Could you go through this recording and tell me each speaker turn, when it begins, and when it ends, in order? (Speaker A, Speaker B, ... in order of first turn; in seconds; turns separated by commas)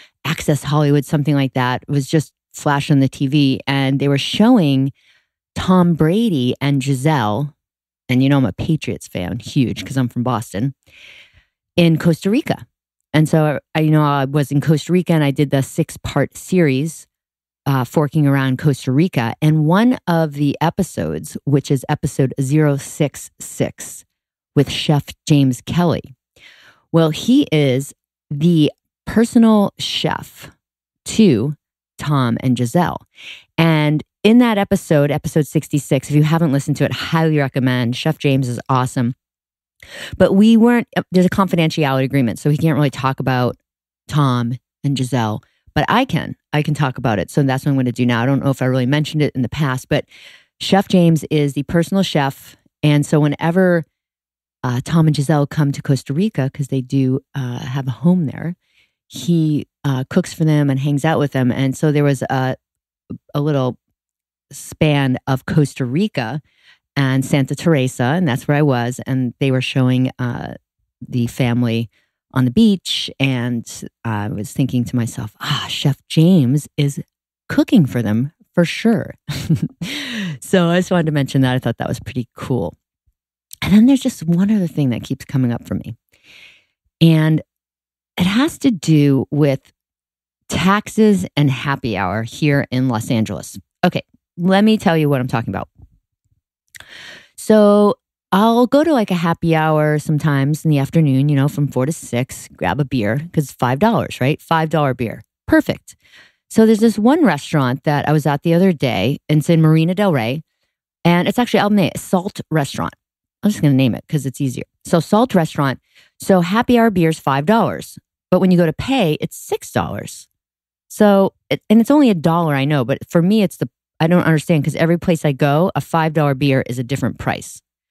Speaker A: 0.2-4.9, Speaker A: 5.5-7.5, Speaker A: 8.1-10.7, Speaker A: 11.8-17.1, Speaker A: 17.7-26.1, Speaker A: 26.9-30.5, Speaker A: 31.0-33.0, Speaker A: 33.6-39.1, Speaker A: 40.2-43.6, Speaker A: 44.1-50.0, Speaker A: 50.6-53.8, Speaker A: 54.6-58.5, Speaker A: 59.1-62.5, Speaker A: 63.3-63.8, Speaker A: 64.5-66.4, Speaker A: 67.0-70.5, Speaker A: 71.1-82.7, Speaker A: 83.6-86.0, Speaker A: 87.0-87.4, Speaker A: 88.2-89.7, Speaker A: 90.5-95.7, Speaker A: 97.4-106.0, Speaker A: 106.5-110.4, Speaker A: 111.0-120.3, Speaker A: 120.9-127.6